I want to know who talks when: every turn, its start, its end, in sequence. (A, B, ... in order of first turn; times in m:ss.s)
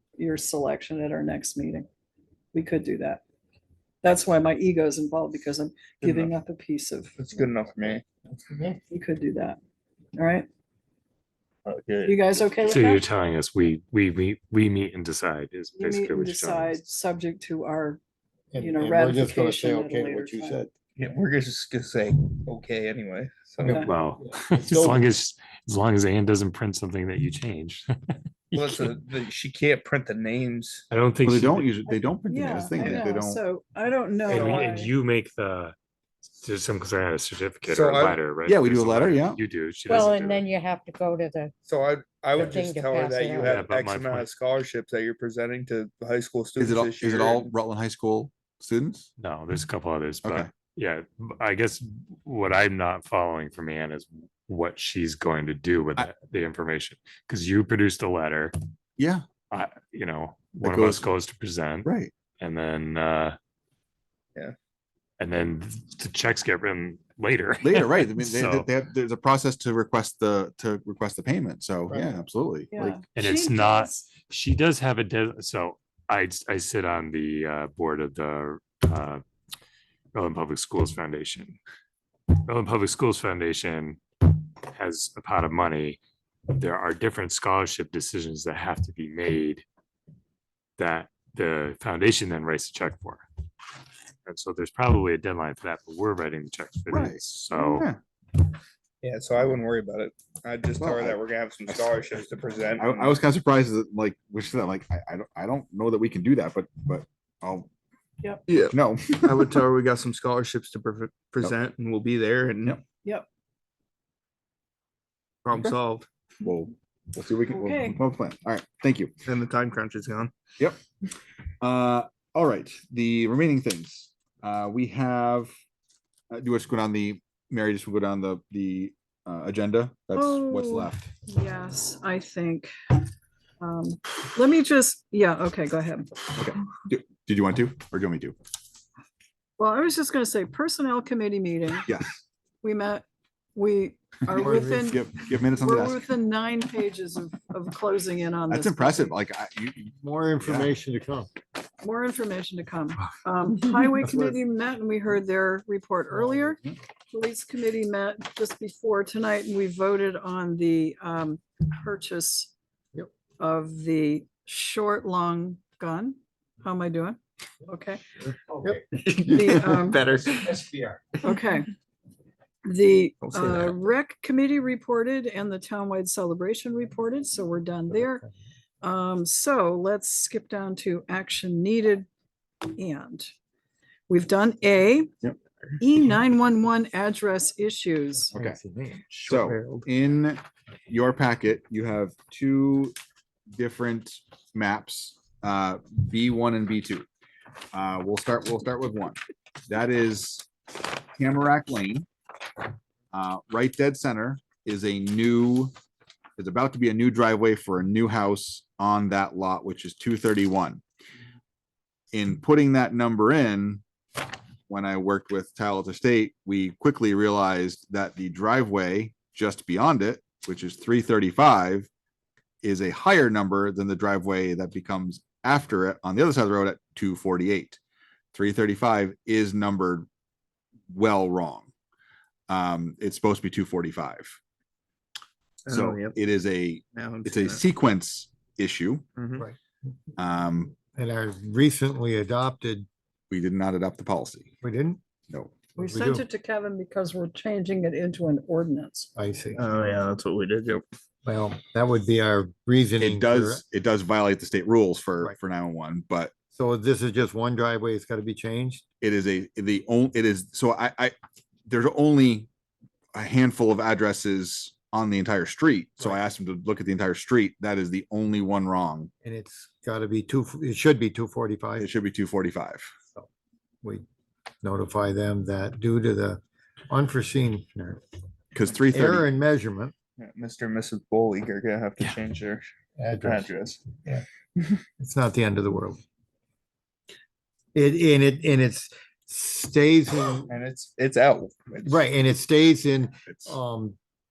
0:00.2-0:01.9 A
0:02.5-0:03.2 A
0:04.0-0:07.1 A
0:06.0-0:06.3 B
0:07.2-0:08.7 B
0:08.9-0:09.6 A
0:10.1-0:10.5 A
0:11.6-0:12.3 B
0:12.0-0:13.0 A
0:12.7-0:16.8 C
0:15.8-0:18.0 A
0:18.5-0:20.7 D
0:18.6-0:20.6 A
0:21.0-0:23.9 B
0:23.6-0:23.9 A
0:23.7-0:29.0 C
0:24.2-0:25.0 D
0:28.5-0:30.8 B
0:30.9-0:31.8 C
0:31.2-0:33.4 E
0:32.2-0:34.9 A
0:34.3-0:34.7 B
0:34.3-0:35.7 C
0:36.4-0:40.5 C
0:37.6-0:38.2 B
0:38.4-0:39.4 E
0:39.9-0:41.5 F
0:41.6-0:47.5 B
0:42.4-0:43.4 F
0:43.4-0:44.3 C
0:46.6-0:49.1 E
0:49.2-0:58.5 C
0:50.2-0:50.5 E
0:59.0-0:59.2 E
0:59.5-1:03.4 C
1:00.6-1:01.1 E
1:01.8-1:02.1 E
1:05.2-1:08.7 C
1:07.6-1:12.9 E
1:11.9-1:12.2 D
1:12.7-1:14.1 A
1:13.1-1:19.2 C
1:20.1-1:21.6 C
1:22.4-1:24.0 C
1:24.7-1:26.0 C
1:26.5-1:29.6 C
1:30.8-1:33.2 C
1:34.2-1:37.8 C
1:36.9-1:38.0 E
1:39.0-1:43.2 B
1:40.8-1:42.0 E
1:42.8-1:47.7 E
1:48.5-1:52.8 B
1:48.5-1:49.6 E
1:55.4-1:56.1 B
1:56.4-1:59.1 E
1:57.5-1:58.0 A
1:59.2-2:00.3 B
2:01.6-2:05.5 E
2:06.3-2:11.0 E
2:10.1-2:12.7 A
2:13.6-2:16.1 A
2:16.3-2:18.4 E
2:19.6-2:21.9 A
2:21.8-2:22.2 E
2:22.6-2:29.1 A
2:24.3-2:26.0 E
2:24.4-2:25.0 D
2:28.5-2:30.7 E
2:30.0-2:31.3 D
2:31.8-2:36.6 A
2:34.0-2:34.3 D
2:36.1-2:36.6 D
2:37.1-2:42.5 A
2:43.4-2:48.0 A
2:48.4-2:48.8 D
2:48.6-2:50.0 A
2:48.9-2:50.8 B
2:51.2-2:51.7 A
2:52.6-2:58.3 A
2:53.2-2:53.8 B
2:58.8-3:02.1 A
3:02.7-3:03.3 A
3:04.1-3:05.1 A
3:05.8-3:08.3 A
3:08.3-3:08.6 E
3:08.3-3:09.9 D
3:09.2-3:12.9 E
3:13.5-3:17.0 E
3:17.7-3:20.5 E
3:21.2-3:22.0 E
3:23.1-3:25.7 E
3:26.4-3:30.8 E
3:32.1-3:33.8 E
3:34.7-3:41.9 E
3:42.6-3:47.8 E
3:48.3-3:50.1 E
3:50.9-3:51.7 E
3:52.5-3:54.4 E
3:55.6-3:56.2 B
3:55.7-3:59.0 E
3:56.9-3:57.6 B
3:59.2-3:59.4 B
4:00.2-4:00.8 E
4:00.9-4:02.9 D
4:03.3-4:04.5 E
4:04.6-4:05.0 D
4:05.8-4:06.2 D
4:05.8-4:09.1 A
4:09.2-4:09.8 D
4:09.5-4:10.8 B
4:11.2-4:13.6 D
4:13.0-4:16.3 E
4:16.5-4:18.8 D
4:19.0-4:21.1 E
4:21.7-4:22.5 E
4:23.1-4:29.1 E
4:29.2-4:31.9 D
4:31.8-4:32.9 E
4:34.6-4:38.0 D
4:38.5-4:39.2 E
4:38.9-4:39.9 D
4:40.2-4:42.7 B
4:43.0-4:43.5 D
4:43.2-4:44.8 B
4:45.0-4:46.0 D
4:47.7-4:50.5 D
4:50.5-4:52.0 B
4:51.8-4:54.0 D